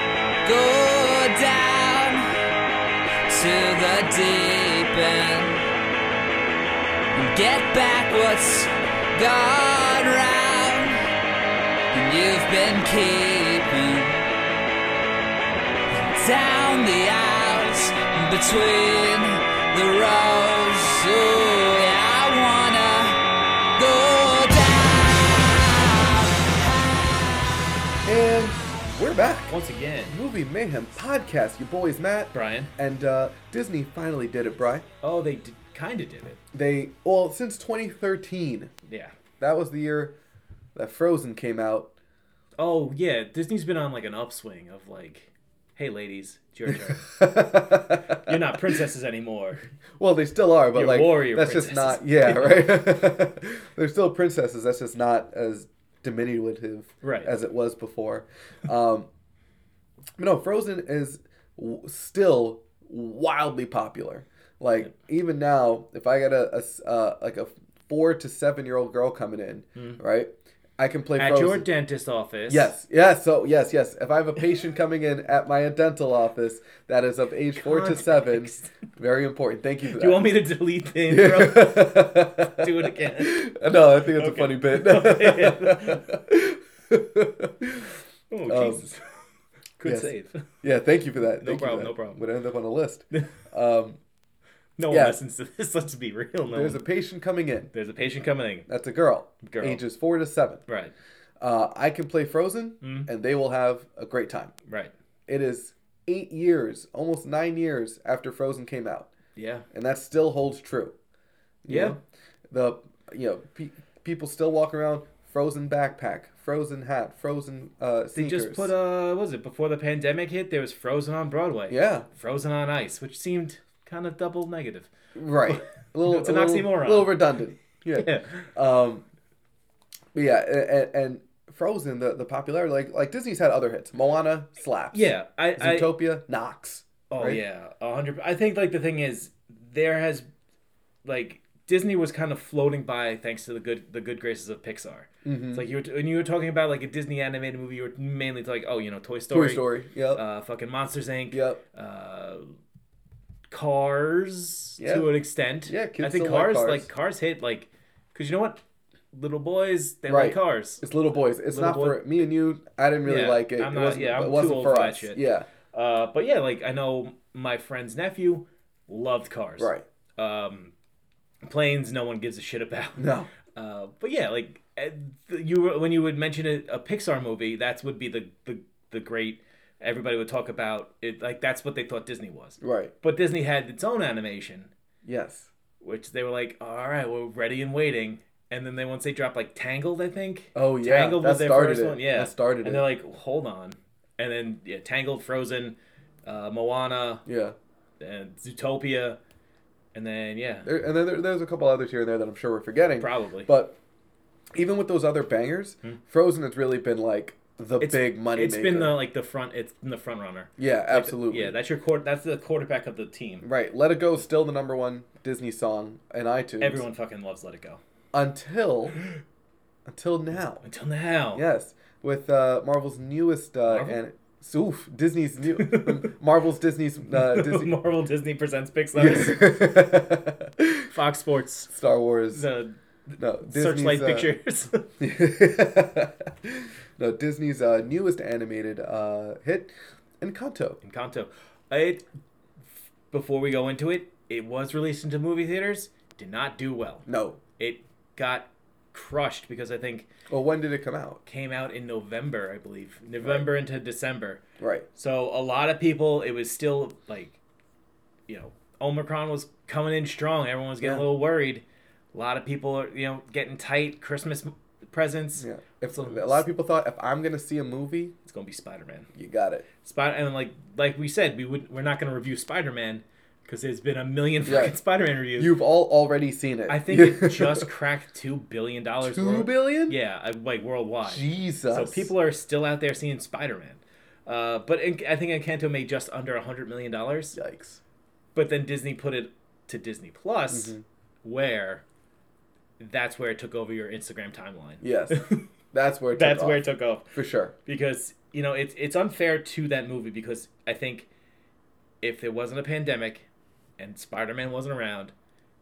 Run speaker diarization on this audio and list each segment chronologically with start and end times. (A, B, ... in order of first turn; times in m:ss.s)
0:00.4-0:02.3 A
0:03.3-0:05.6 A
0:07.1-0:11.0 A
0:11.9-0:14.2 A
0:15.9-0:23.2 A
0:23.8-0:27.3 A
0:28.0-0:29.6 B
0:29.5-0:30.2 C
0:30.1-0:34.8 B
0:32.3-0:32.7 C
0:35.0-0:36.4 C
0:36.5-0:38.7 B
0:38.9-0:39.1 C
0:39.4-0:40.1 B
0:40.7-0:41.9 B
0:42.6-0:47.1 C
0:46.7-0:48.8 B
0:48.1-0:49.6 C
0:50.0-0:59.1 B
0:50.7-0:52.7 C
0:57.0-0:57.3 C
1:00.2-1:11.6 B
1:11.2-1:12.7 C
1:12.5-1:20.2 B
1:17.5-1:18.7 C
1:19.9-1:23.5 C
1:21.1-1:27.9 B
1:24.1-1:26.1 C
1:28.3-1:29.0 C
1:28.5-1:28.8 B
1:29.8-1:30.4 C
1:29.8-1:30.1 B
1:30.6-1:34.0 B
1:31.4-1:32.2 C
1:34.8-1:36.8 C
1:34.9-1:35.2 B
1:36.5-1:37.7 B
1:37.7-1:38.7 C
1:38.7-1:40.6 B
1:39.4-1:39.8 C
1:40.7-1:40.9 C
1:41.4-1:44.5 B
1:42.8-1:43.1 C
1:44.7-1:44.9 C
1:45.3-1:49.1 B
1:49.4-1:49.6 C
1:49.7-1:50.9 B
1:51.6-1:58.7 B
1:51.7-1:52.0 C
1:58.1-2:04.9 C
2:01.7-2:02.1 B
2:05.1-2:09.0 B
2:05.4-2:07.3 C
2:08.0-2:08.5 C
2:10.1-2:17.4 B
2:14.9-2:15.9 C
2:17.1-2:20.2 C
2:21.0-2:32.5 C
2:25.2-2:25.6 B
2:29.3-2:30.2 B
2:31.3-2:31.6 B
2:33.5-2:38.6 C
2:34.8-2:35.1 B
2:35.6-2:36.9 B
2:39.1-2:40.9 C
2:40.1-2:45.5 B
2:41.5-2:42.1 C
2:43.0-2:50.7 C
2:49.6-2:49.8 B
2:51.4-3:04.7 C
2:53.0-2:53.3 B
3:02.6-3:02.9 B
3:05.0-3:05.5 B
3:05.8-3:17.2 C
3:10.5-3:12.8 B
3:17.2-3:17.6 B
3:18.0-3:19.2 C
3:19.9-3:20.7 C
3:20.6-3:23.7 B
3:23.0-3:23.5 C
3:24.5-3:29.0 B
3:27.8-3:33.5 C
3:30.6-3:31.5 B
3:33.4-3:36.8 B
3:36.6-3:37.8 C
3:38.1-3:39.0 B
3:39.8-3:40.6 B
3:40.6-3:41.4 C
3:41.3-3:47.7 B
3:43.7-3:44.0 C
3:45.6-3:46.1 C
3:47.1-3:49.4 C
3:48.9-3:50.9 B
3:50.9-3:51.7 C
3:51.7-3:52.4 B
3:52.3-3:54.9 C
3:53.2-3:54.3 B
3:55.0-4:00.8 B
4:00.8-4:02.0 C
4:03.1-4:10.1 C
4:07.1-4:07.4 B
4:10.3-4:11.2 B
4:11.2-4:14.4 C
4:13.2-4:13.5 B
4:14.6-4:14.8 B
4:14.9-4:17.4 C
4:18.3-4:21.6 C
4:22.1-4:26.4 C
4:25.4-4:28.1 B
4:28.2-4:29.1 C
4:29.1-4:29.6 B
4:29.8-4:35.5 C
4:34.4-4:34.8 B
4:35.4-4:37.7 B
4:36.7-4:47.4 C
4:39.0-4:40.0 B
4:41.0-4:42.1 B
4:47.3-4:47.8 B
4:48.3-4:51.8 C
4:50.5-4:50.8 B
4:52.8-4:55.5 C
4:54.8-4:57.5 B
4:56.1-5:01.1 C
5:02.0-5:03.2 C
5:03.8-5:05.1 C